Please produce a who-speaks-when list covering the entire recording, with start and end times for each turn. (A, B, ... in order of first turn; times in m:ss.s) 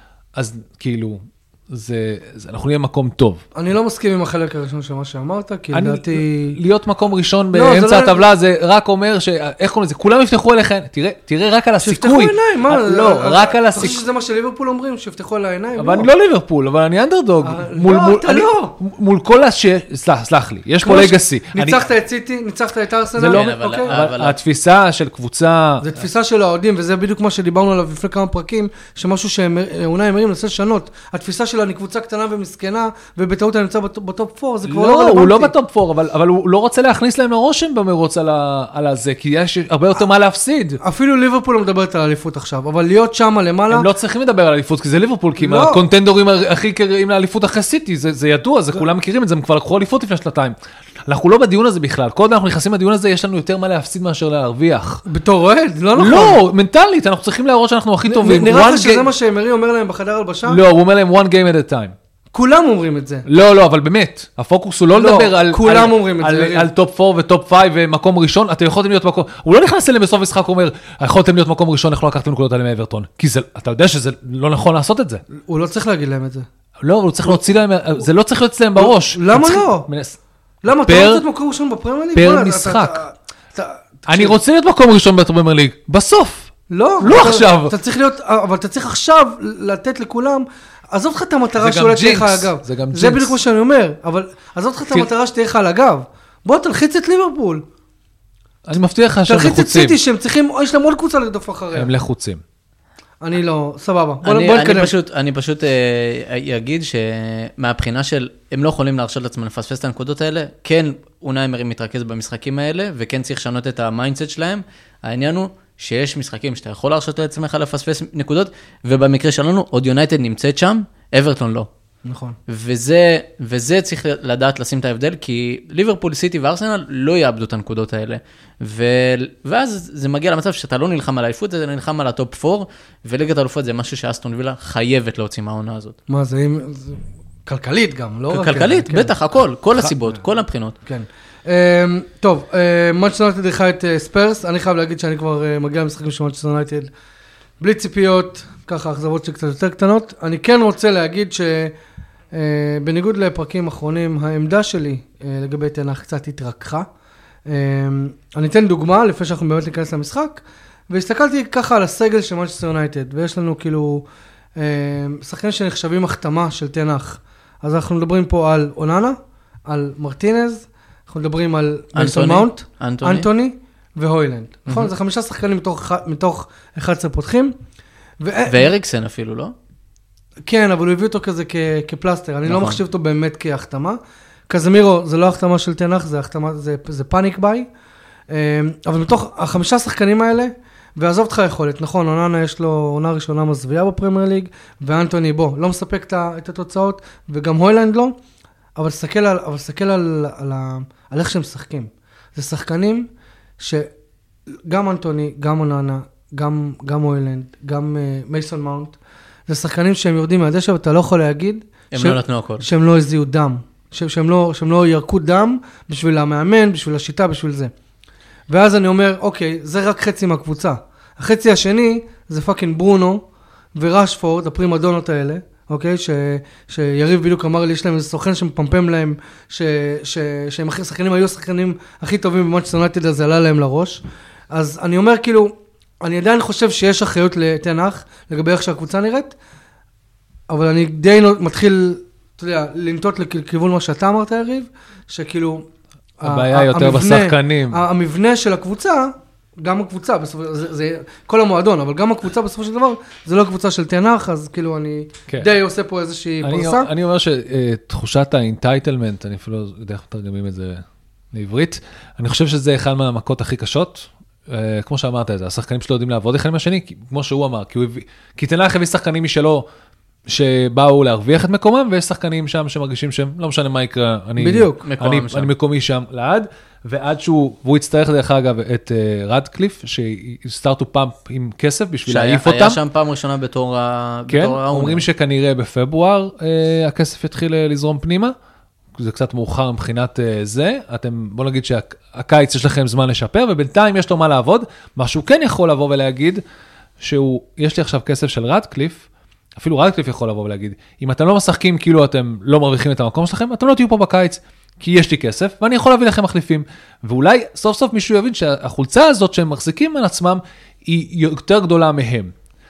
0:00.4-0:03.4 A
0:03.6-0:06.6 B
0:05.7-0:14.0 A
0:07.5-0:08.3 B
0:11.8-0:16.1 B
0:15.8-0:21.9 A
0:17.4-0:18.8 B
0:20.8-0:24.0 B
0:23.2-0:25.9 A
0:23.2-0:24.4 C
0:25.8-0:35.5 B
0:34.7-0:40.8 A
0:40.8-0:43.9 B
0:43.7-0:50.6 A
0:45.4-0:45.8 B
0:51.1-0:55.0 A
0:55.1-0:56.4 B
0:56.0-0:59.1 A
0:58.1-1:00.6 B
1:00.5-1:02.0 A
1:02.3-1:03.3 B
1:03.3-1:15.2 A
1:04.9-1:06.7 B
1:15.4-1:16.5 B
1:16.8-1:21.2 A
1:18.8-1:19.9 B
1:20.6-1:24.4 B
1:22.2-1:23.0 A
1:24.1-1:27.8 A
1:26.7-1:37.6 B
1:31.6-1:33.4 A
1:38.6-1:40.0 A
1:39.3-1:41.9 B
1:41.7-1:42.4 A
1:43.2-1:44.9 B
1:44.2-2:01.7 C
2:02.1-2:02.4 B
2:02.5-2:16.0 C
2:16.1-2:19.1 B
2:18.3-2:20.8 C
2:20.9-2:26.9 B
2:27.6-2:31.8 B
2:32.3-2:36.9 B
2:37.5-2:44.0 B
2:44.6-2:57.6 B
2:52.0-2:53.3 C
2:58.2-2:58.7 B
2:58.5-2:59.5 C
3:00.4-3:07.7 B
3:02.5-3:02.8 C
3:08.3-3:18.2 B
3:18.8-3:23.9 B
3:24.6-3:37.7 B
3:31.9-3:32.6 C
3:38.5-3:59.4 B
4:00.5-4:05.7 B
4:06.2-4:16.9 B
4:06.2-4:07.8 A
4:16.4-4:29.7 A
4:30.3-4:42.8 A
4:34.4-4:34.8 B
4:34.8-4:35.5 C
4:42.1-4:45.0 C
4:44.3-4:48.3 A
4:49.0-4:56.4 A
4:57.0-4:59.1 A
4:59.6-5:12.3 A